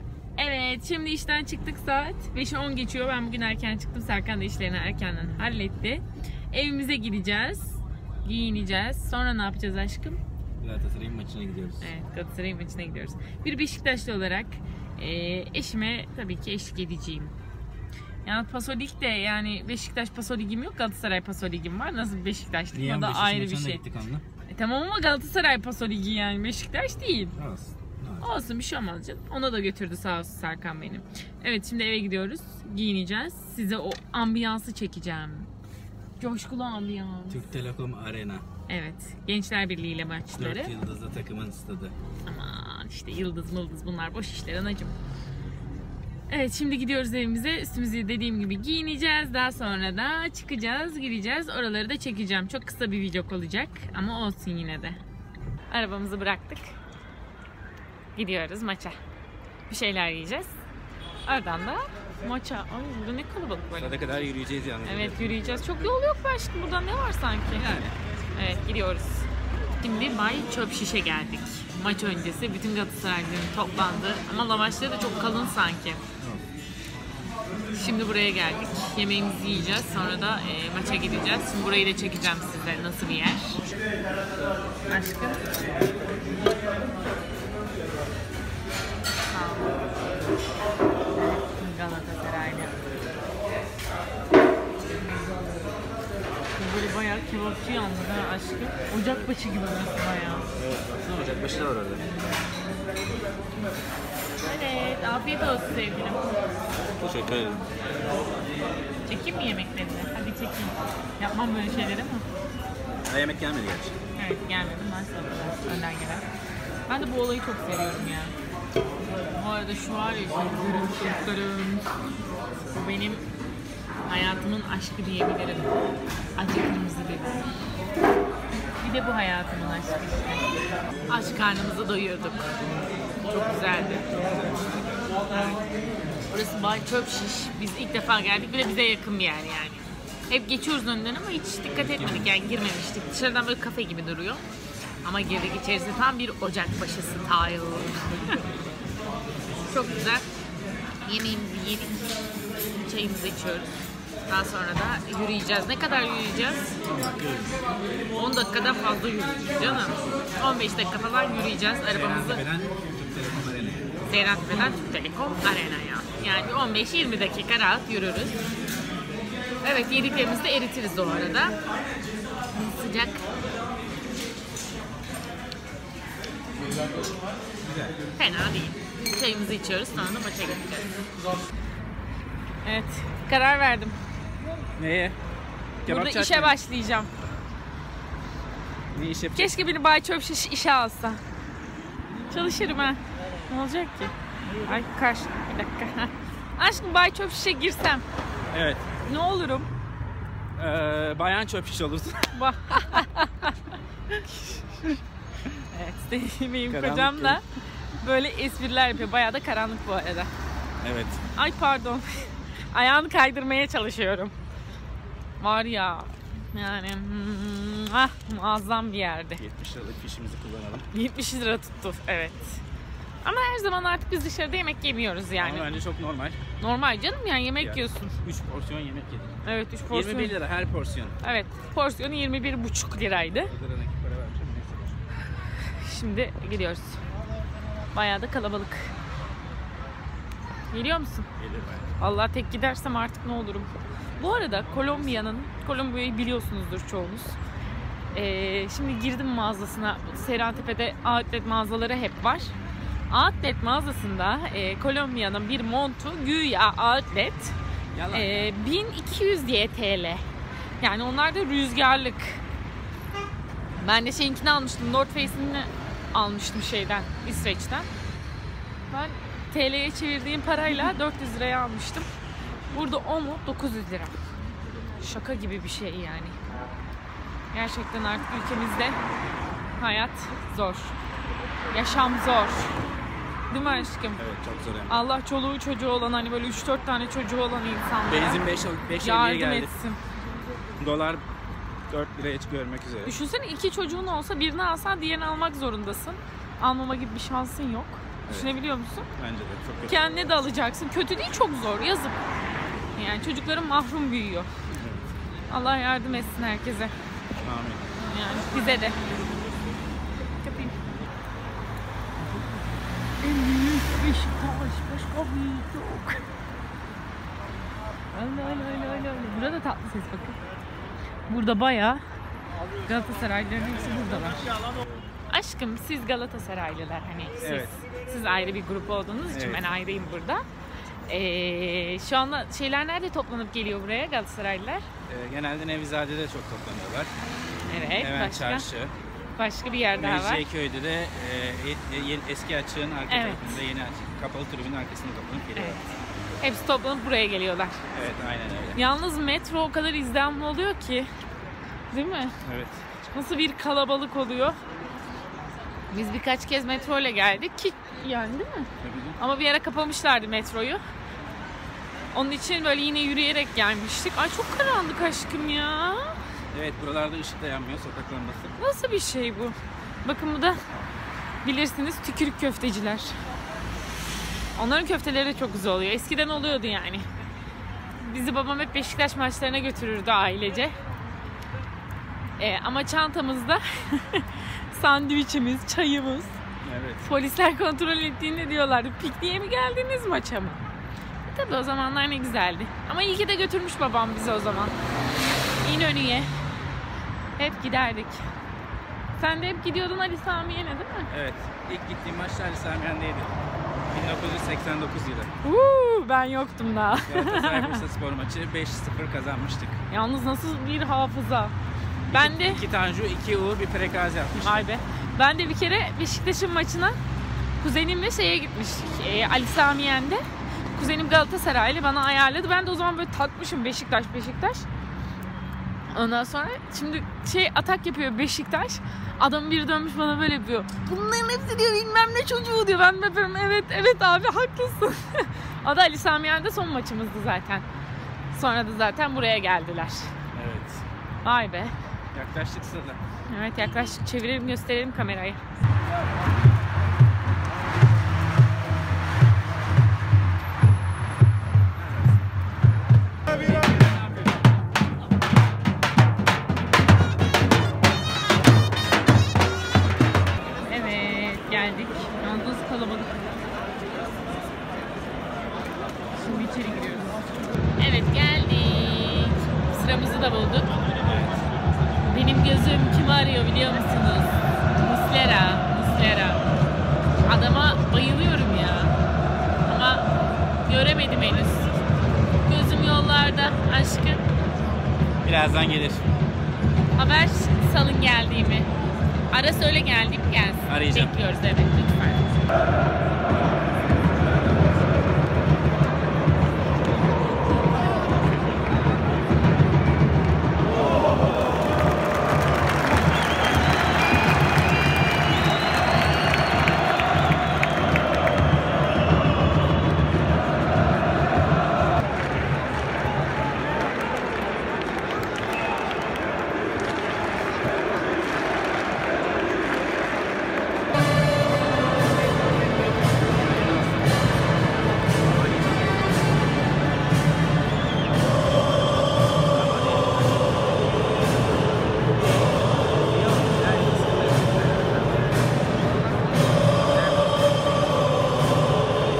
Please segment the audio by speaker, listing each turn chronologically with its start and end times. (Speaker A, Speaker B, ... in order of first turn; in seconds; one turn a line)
Speaker A: 0.4-10.2
Speaker B: 10.6-11.9
Speaker A: 11.8-17.3
Speaker A: 18.2-23.8
Speaker B: 22.7-24.2
Speaker A: 24.5-27.3
Speaker B: 27.4-28.3
Speaker A: 28.2-35.5
Speaker A: 36.2-37.5
Speaker B: 37.3-38.5
Speaker A: 38.7-40.7
Speaker B: 40.4-41.9
Speaker A: 42.2-45.0
Speaker A: 46.3-55.0
Speaker A: 55.7-56.6
Speaker A: 58.1-59.0
Speaker A: 59.7-60.5
Speaker A: 61.2-64.1
Speaker B: 63.8-65.9
Speaker A: 64.8-67.7
Speaker B: 67.5-68.0
Speaker A: 68.3-69.3
Speaker A: 69.8-76.0
Speaker A: 77.7-83.6
Speaker A: 84.9-85.5
Speaker A: 89.3-89.8
Speaker A: 91.1-92.8
Speaker A: 96.5-100.5
Speaker B: 100.5-102.0
Speaker A: 104.4-106.3
Speaker B: 107.0-107.6
Speaker A: 109.1-112.2
Speaker B: 113.0-114.0
Speaker A: 114.2-116.2
Speaker A: 116.9-118.3
Speaker A: 119.3-121.9
Speaker A: 122.7-123.2
Speaker A: 124.0-125.8
Speaker A: 126.3-127.5
Speaker A: 128.8-130.5
Speaker A: 131.1-132.5
Speaker A: 133.3-134.1
Speaker B: 134.1-135.5
Speaker A: 136.3-144.4
Speaker B: 141.7-142.3
Speaker A: 145.0-148.4
Speaker A: 149.7-150.2
Speaker A: 151.1-152.1
Speaker A: 152.8-153.7
Speaker A: 154.3-156.7
Speaker B: 156.8-157.6
Speaker A: 158.1-162.4
Speaker B: 159.6-160.2
Speaker B: 161.9-163.9
Speaker A: 164.1-168.4
Speaker B: 166.2-166.4
Speaker A: 169.6-171.6
Speaker A: 172.5-173.3
Speaker B: 177.6-177.9
Speaker A: 178.2-180.9
Speaker A: 182.6-184.0
Speaker B: 184.8-185.2
Speaker B: 185.8-186.6
Speaker A: 185.9-187.1
Speaker B: 188.9-189.6
Speaker A: 189.3-191.2
Speaker A: 192.3-198.0
Speaker B: 198.5-198.9
Speaker A: 199.0-199.7
Speaker B: 200.6-202.4
Speaker A: 202.3-207.4
Speaker B: 206.7-207.4
Speaker A: 208.0-210.3
Speaker B: 210.8-211.2
Speaker A: 211.3-214.3
Speaker A: 215.4-219.4
Speaker B: 219.4-220.9
Speaker A: 220.9-222.6
Speaker A: 223.2-225.7
Speaker B: 225.4-226.4
Speaker A: 226.6-228.2
Speaker B: 227.6-229.3
Speaker A: 229.4-230.3
Speaker B: 229.9-231.2
Speaker A: 231.2-233.5
Speaker B: 233.4-235.0
Speaker A: 235.6-237.0
Speaker A: 237.9-238.9
Speaker A: 240.7-241.3
Speaker B: 241.4-241.9
Speaker A: 242.0-247.4
Speaker A: 248.1-252.5
Speaker A: 253.1-257.6
Speaker B: 257.9-258.4
Speaker A: 258.1-260.2
Speaker A: 260.8-262.4
Speaker A: 263.8-267.9
Speaker A: 268.9-272.1
Speaker A: 272.7-274.1
Speaker A: 275.0-276.4
Speaker A: 277.5-279.0
Speaker A: 279.8-280.9
Speaker A: 281.7-282.8
Speaker A: 283.5-284.2
Speaker B: 284.2-285.1
Speaker A: 284.9-290.0
Speaker B: 288.1-289.7
Speaker B: 290.8-291.2
Speaker B: 291.9-293.1
Speaker A: 293.0-299.1
Speaker B: 298.3-298.5
Speaker B: 299.1-300.3
Speaker A: 299.9-302.2
Speaker A: 302.9-304.5
Speaker B: 304.7-305.1
Speaker A: 305.5-306.9
Speaker B: 307.4-307.8
Speaker A: 308.0-309.0
Speaker A: 310.4-310.8
Speaker A: 313.2-316.2
Speaker A: 318.1-320.4
Speaker A: 321.3-322.0
Speaker A: 322.8-324.5
Speaker A: 325.3-330.4
Speaker B: 327.4-327.8
Speaker B: 329.3-329.7
Speaker A: 331.1-334.8
Speaker B: 335.1-337.1
Speaker A: 337.7-338.7
Speaker B: 337.9-338.9
Speaker A: 339.4-340.4
Speaker B: 339.9-345.8
Speaker A: 343.1-343.4
Speaker A: 345.6-345.8
Speaker A: 346.4-347.8
Speaker B: 347.9-348.8
Speaker A: 348.7-351.1
Speaker A: 351.9-352.3
Speaker B: 352.4-352.9
Speaker A: 353.1-354.6
Speaker A: 355.9-360.8
Speaker B: 358.8-359.2
Speaker A: 362.1-366.1
Speaker B: 366.5-368.5
Speaker A: 368.6-370.6
Speaker A: 371.4-373.2
Speaker A: 374.6-377.1
Speaker A: 378.0-380.7
Speaker A: 382.4-386.4
Speaker B: 386.6-387.1
Speaker A: 387.0-390.6
Speaker A: 391.2-394.8
Speaker A: 395.6-396.3
Speaker A: 397.4-398.2
Speaker A: 399.2-401.1
Speaker B: 401.1-403.4
Speaker B: 403.9-405.3
Speaker A: 405.4-407.8
Speaker B: 407.1-409.8
Speaker A: 409.9-411.5
Speaker B: 412.1-414.7
Speaker A: 412.1-412.6
Speaker A: 414.4-417.0
Speaker A: 417.6-420.2
Speaker A: 420.7-424.7
Speaker A: 425.9-437.6
Speaker A: 438.3-440.1
Speaker B: 440.3-440.9
Speaker A: 441.2-441.7
Speaker B: 442.1-443.0
Speaker A: 443.3-445.4
Speaker B: 443.6-444.0
Speaker B: 451.6-452.2
Speaker A: 460.6-463.2
Speaker A: 466.1-467.1
Speaker A: 467.8-470.8
Speaker B: 471.0-471.5
Speaker A: 472.0-476.4
Speaker A: 477.2-478.9
Speaker A: 479.6-480.1
Speaker A: 480.6-481.8
Speaker A: 482.4-484.2
Speaker B: 485.2-486.1
Speaker A: 486.9-488.7
Speaker A: 489.3-492.4
Speaker B: 490.7-491.1
Speaker B: 525.3-526.0
Speaker B: 529.5-532.4
Speaker B: 532.9-537.7